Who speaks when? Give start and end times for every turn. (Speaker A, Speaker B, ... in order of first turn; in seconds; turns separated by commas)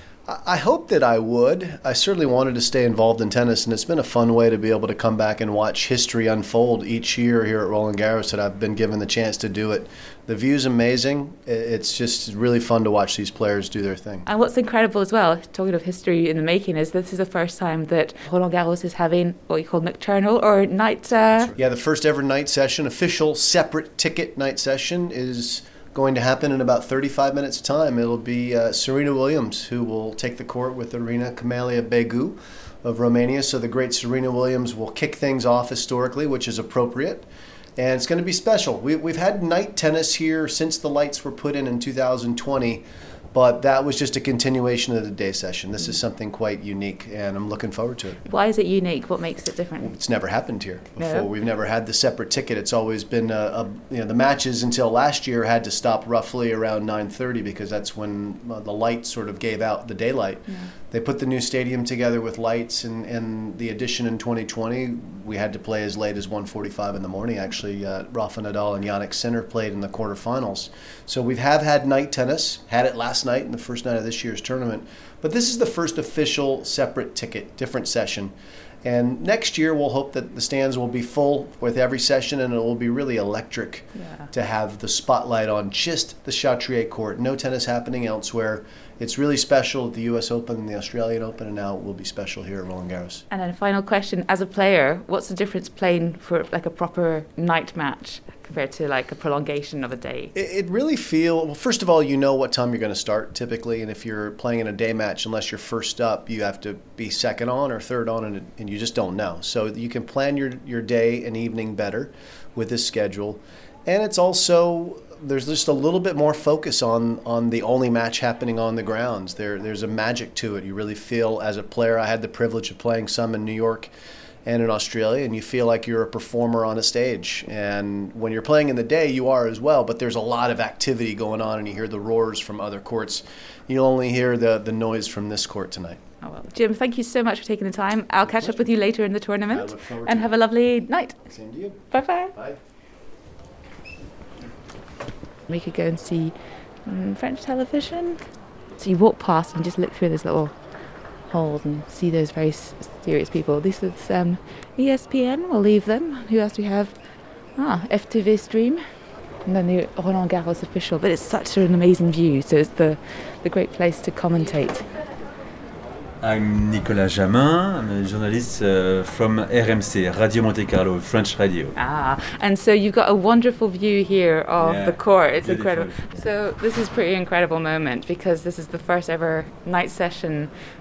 Speaker A: 0.3-14.2, Speaker B: 14.2-21.5, Speaker A: 21.4-48.2, Speaker B: 48.2-50.0, Speaker A: 49.8-78.3, Speaker B: 51.0-51.3, Speaker B: 60.5-60.7, Speaker A: 78.8-93.2, Speaker B: 83.9-84.3, Speaker B: 93.3-100.3, Speaker A: 100.3-123.9, Speaker A: 124.4-136.0, Speaker B: 136.2-141.3, Speaker A: 138.2-138.6, Speaker A: 139.5-140.3, Speaker A: 141.2-142.6, Speaker B: 141.9-142.3, Speaker B: 145.5-158.8, Speaker B: 159.4-164.9, Speaker C: 166.2-171.8, Speaker B: 171.7-180.5, Speaker C: 174.6-176.3